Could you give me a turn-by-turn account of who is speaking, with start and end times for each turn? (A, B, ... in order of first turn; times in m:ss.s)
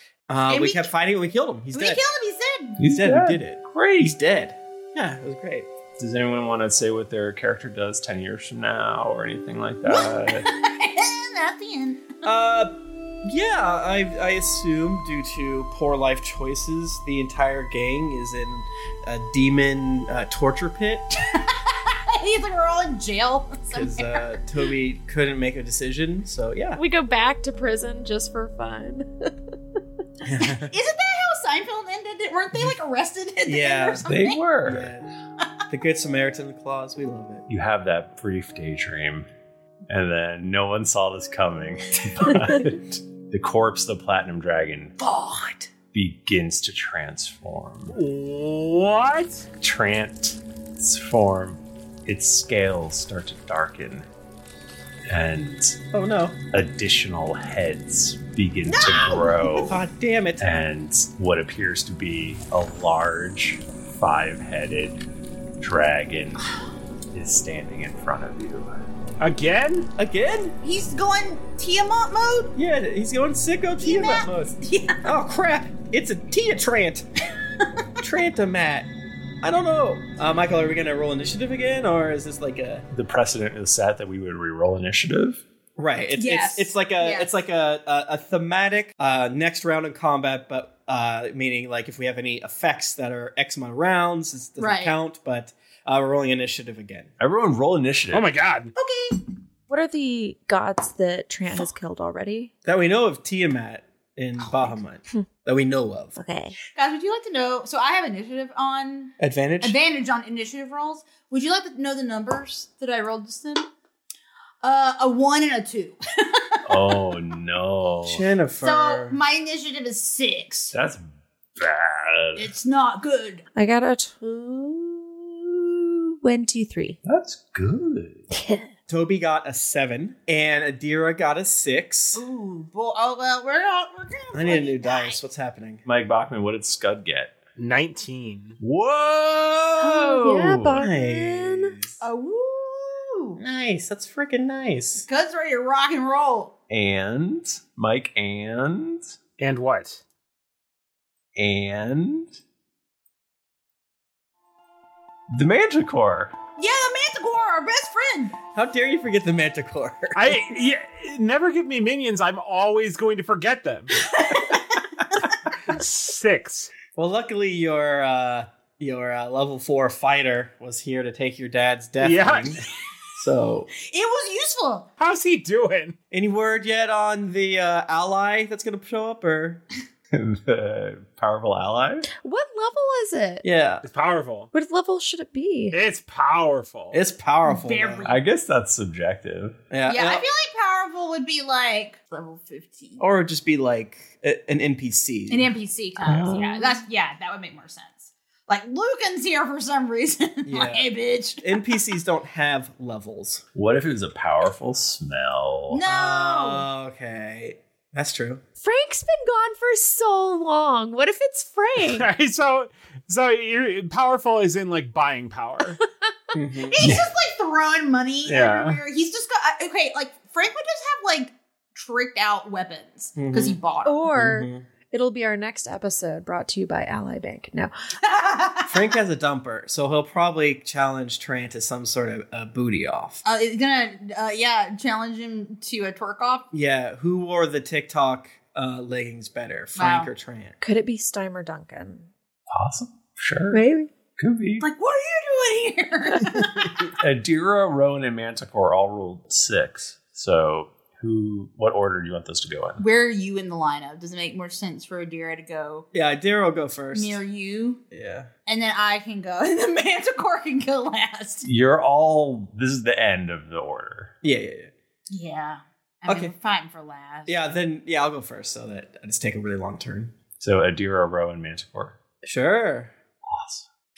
0:00.3-0:02.0 A
0:00.5-0:00.9 B
0:01.7-0:02.8 B
0:02.8-0:04.2 C
0:02.8-0:05.7 A
0:06.0-0:10.4 C
0:09.9-0:12.2 B
0:12.2-0:12.7 A
0:13.2-0:21.1 A
0:21.3-0:24.2 B
0:23.7-0:26.8 A
0:26.8-0:29.3 D
0:30.2-0:30.7 A
0:30.6-0:34.4 B
0:33.4-0:34.1 A
0:34.1-0:34.9 C
0:34.6-0:35.1 A
0:35.7-0:37.4 A
0:37.5-0:39.3 C
0:39.9-0:45.0 C
0:45.1-0:45.6 B
0:45.9-0:48.0 C
0:47.9-0:49.4 E
0:49.6-0:54.0 C
0:55.1-0:55.8 C
0:55.9-0:56.4 A
0:56.5-0:59.8 C
0:58.7-0:59.7 B
0:59.6-1:00.5 A
1:00.4-1:05.0 C
1:05.6-1:06.5 C
1:07.1-1:08.7 C
1:09.2-1:09.9 E
1:10.0-1:10.6 A
1:10.6-1:12.5 B
1:12.5-1:17.0 A
1:13.8-1:15.0 B
1:18.0-1:18.9 A
1:19.4-1:22.8 A
1:22.9-1:25.4 C
1:25.8-1:37.1 A
1:26.1-1:27.3 B
1:34.6-1:35.0 B
1:37.2-1:38.4 C
1:38.1-1:38.7 E
1:38.7-1:39.2 B
1:39.7-1:42.5 D
1:42.6-1:46.2 A
1:46.2-1:46.6 D
1:46.7-1:53.7 B
1:49.2-1:49.8 A
1:54.6-1:56.6 B
1:56.6-1:58.3 C
1:58.1-1:59.2 A
1:58.6-2:00.7 B
2:00.7-2:02.5 C
2:02.4-2:03.4 B
2:03.5-2:07.0 D
2:07.0-2:08.2 C
2:08.3-2:08.6 D
2:08.9-2:12.2 A
2:12.1-2:15.2 B
2:14.3-2:15.8 A
2:15.8-2:17.4 C
2:17.6-2:18.6 E
2:18.6-2:20.9 C
2:19.8-2:21.8 D
2:20.7-2:21.9 A
2:22.0-2:23.4 B
2:23.4-2:25.0 A
2:25.1-2:26.5 B
2:26.7-2:29.1 C
2:29.4-2:30.0 E
2:31.4-2:32.3 C
2:35.3-2:36.3 C
2:36.6-2:38.4 B
2:38.4-2:40.4 A
2:40.1-2:43.9 E
2:45.7-2:46.7 E
2:46.9-2:52.6 A
2:52.0-2:52.5 E
2:53.2-2:53.7 A
2:53.8-2:54.9 B
2:55.0-2:56.0 E
2:56.1-2:59.6 A
3:00.1-3:02.1 C
3:02.2-3:03.4 D
3:03.4-3:03.8 A
3:03.8-3:04.5 E
3:04.5-3:05.8 D
3:05.7-3:07.0 E
3:06.9-3:08.1 A
3:07.4-3:08.2 B
3:08.0-3:09.6 C
3:09.7-3:10.3 A
3:09.8-3:13.0 B
3:13.0-3:15.5 A
3:15.3-3:21.4 B
3:16.1-3:16.8 D
3:20.4-3:23.4 A
3:23.5-3:25.8 C
3:25.7-3:26.7 B
3:25.8-3:28.4 A
3:28.6-3:32.1 D
3:31.8-3:35.8 E
3:36.3-3:36.9 A
3:36.6-3:44.1 B
3:38.2-3:38.8 E
3:43.1-3:43.6 A
3:43.8-3:47.7 D
3:44.1-3:44.6 A
3:48.0-3:48.8 B
3:48.7-3:53.2 A
3:53.2-3:56.5 B
3:56.5-4:00.6 A
3:59.7-4:00.1 B
4:00.6-4:02.1 D
4:02.5-4:03.6 C
4:03.5-4:03.9 D
4:04.2-4:04.7 C
4:04.6-4:06.7 B
4:07.0-4:12.8 C
4:12.8-4:15.8 B
4:15.9-4:17.2 A
4:16.9-4:17.8 B
4:17.9-4:18.3 A
4:18.4-4:21.4 B
4:21.4-4:24.1 C
4:24.2-4:24.7 A
4:25.1-4:27.4 B
4:26.0-4:26.3 A
4:27.2-4:30.1 A
4:30.4-4:32.0 C
4:32.2-4:32.9 A
4:33.2-4:33.6 C